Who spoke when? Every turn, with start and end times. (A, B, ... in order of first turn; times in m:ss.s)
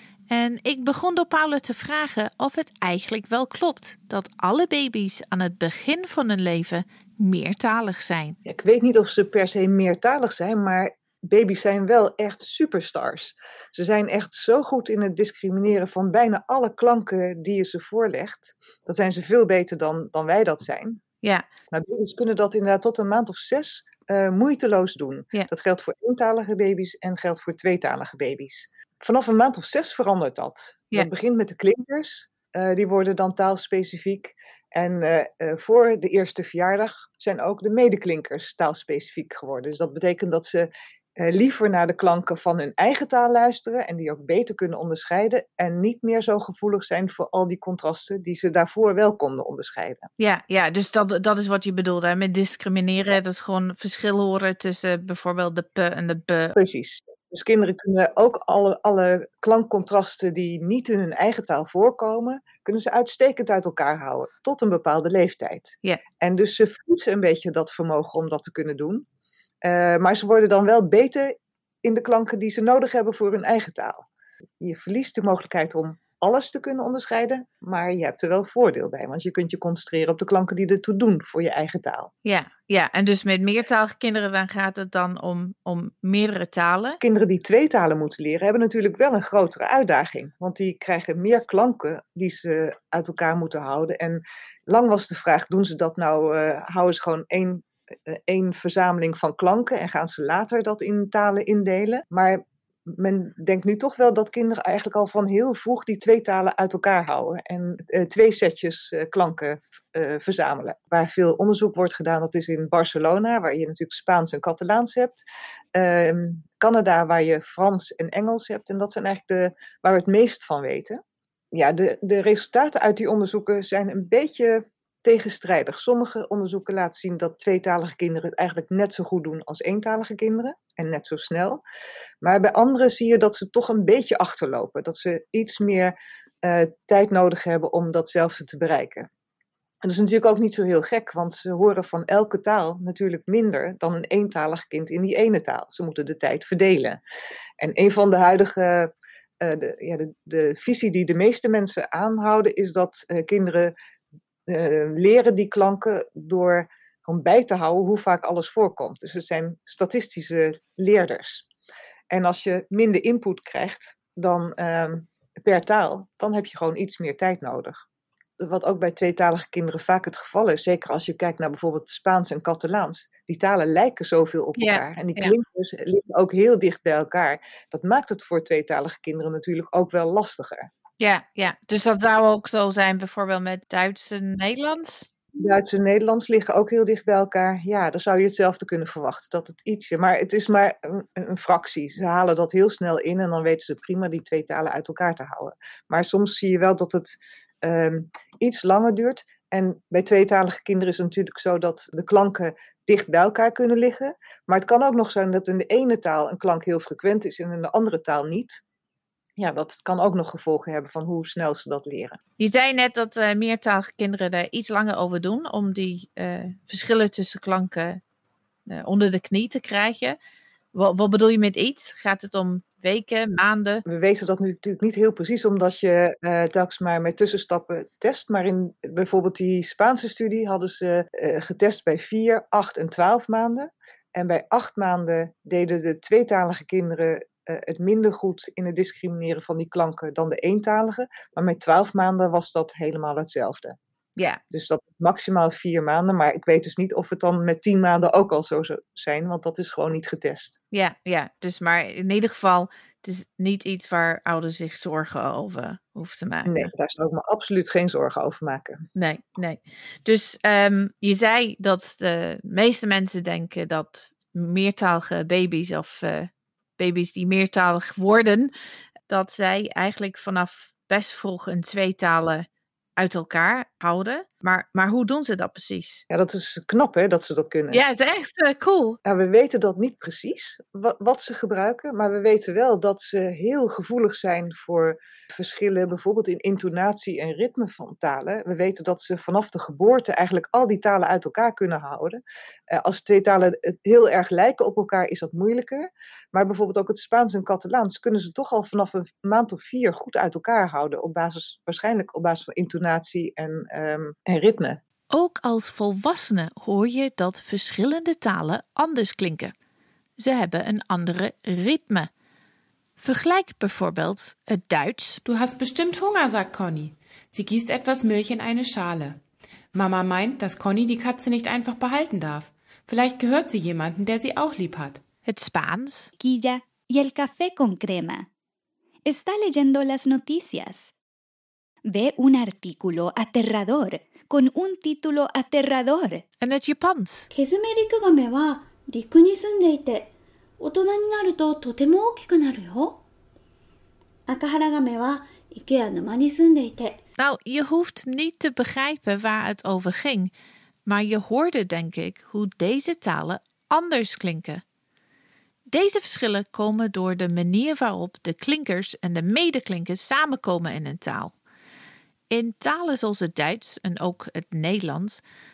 0:00.3-0:08.4 A
0:08.4-0:21.0 B
0:21.7-0:50.1 B
0:50.2-0:56.6 A
0:56.6-1:09.0 B
1:09.6-1:14.0 B
1:14.6-1:22.1 B
1:22.2-1:27.0 A
1:27.0-2:01.0 B
2:01.5-2:11.6 B
2:12.2-2:19.1 B
2:19.8-2:27.0 B
2:27.6-2:33.7 B
2:34.5-2:41.4 B
2:42.1-2:47.8 B
2:48.4-3:00.7 B
2:54.6-2:55.3 A
3:01.0-3:05.1 A
3:05.4-3:28.6 B
3:29.4-3:32.2 B
3:32.4-3:38.0 A
3:38.7-3:40.2 A
3:40.7-3:43.8 A
3:43.8-4:03.8 B
4:04.2-4:04.4 A
4:04.5-4:10.6 B
4:10.7-4:16.7 A
4:16.4-4:18.8 B
4:19.0-4:28.5 A
4:29.1-4:36.0 A
4:36.1-4:37.8 B
4:37.7-4:39.0 A
4:39.0-4:52.2 B
4:52.7-5:04.8 B
5:05.1-5:09.5 A
5:10.2-5:12.1 A
5:13.0-5:15.2 A
5:15.2-5:19.2 C
5:19.7-5:25.0 C
5:25.2-5:26.1 A
5:26.2-5:28.3 D
5:29.0-5:30.9 D
5:31.8-5:36.2 D
5:36.4-5:37.3 A
5:37.3-5:43.0 E
5:44.3-5:47.0 E
5:47.2-5:50.3 A
5:50.8-5:54.6 A
5:55.7-6:01.3 A
6:02.3-6:05.2 A